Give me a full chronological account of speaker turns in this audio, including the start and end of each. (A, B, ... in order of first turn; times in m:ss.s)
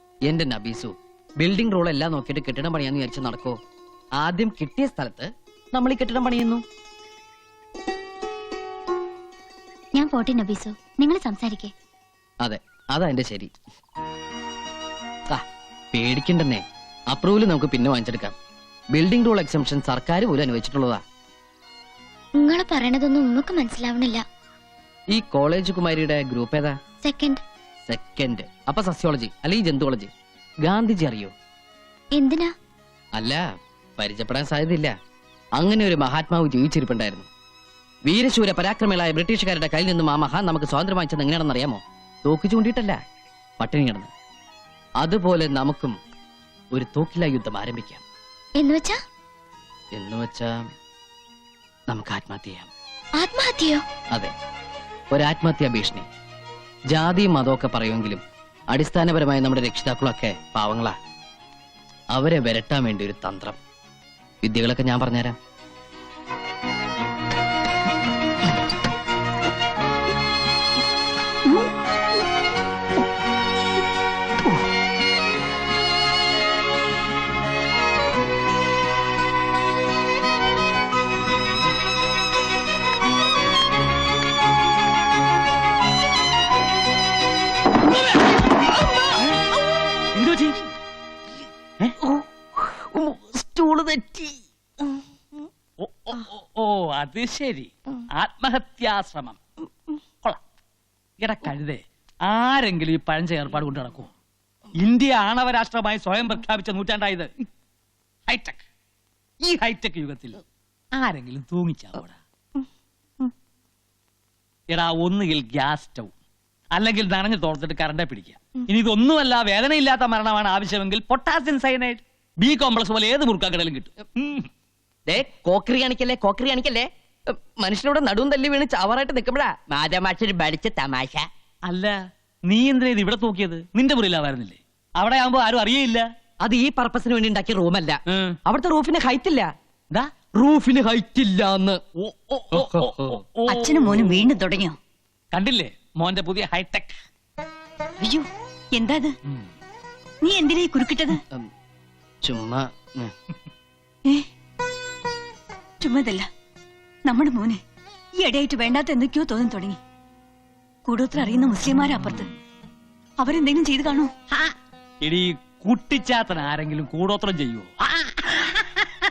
0:00.3-0:03.6 A
0:04.2-0:06.6 A
0:09.9-0:11.7 B
0:12.4-0:13.5 A
0:15.3-0:18.3 A
0:18.9-0:21.0 A
0:22.4-0:24.2 B
0:25.1-0:26.8 A
0:27.0-0:27.4 B
0:27.9-0:30.1 A
0:30.6-0:31.3 A
0:32.1-0:32.5 B
0:33.2-0:33.4 A
0:34.0-0:34.9 A
0:35.6-0:37.3 A
0:38.0-0:43.0 A
0:43.6-0:44.1 A
0:45.0-0:46.0 A
0:46.7-0:48.0 A
0:48.6-0:49.0 B
0:50.0-0:50.6 A
0:51.9-0:52.7 A
0:53.2-0:53.8 B
0:55.1-0:56.0 A
0:56.9-1:00.9 A
1:02.1-1:03.6 A
1:04.4-1:05.4 A
1:30.1-1:30.6 C
1:33.0-1:34.3 A
1:35.8-1:39.4 C
1:41.2-1:44.1 C
1:44.8-1:47.3 C
1:48.3-1:48.6 C
1:49.5-1:50.4 C
1:50.9-1:52.2 C
1:54.7-1:56.1 C
1:56.7-2:04.5 C
2:05.1-2:06.9 A
2:07.6-2:11.2 A
2:11.7-2:16.1 C
2:16.4-2:19.5 A
2:20.3-2:21.8 A
2:22.0-2:24.2 C
2:22.5-2:23.2 A
2:23.5-2:24.8 D
2:25.3-2:27.0 C
2:28.0-2:29.1 D
2:30.2-2:31.2 D
2:32.2-2:33.1 A
2:35.8-2:36.3 D
2:37.0-2:37.6 D
2:38.2-2:39.8 D
2:40.8-2:42.3 D
2:43.2-2:44.1 D
2:45.0-2:47.7 C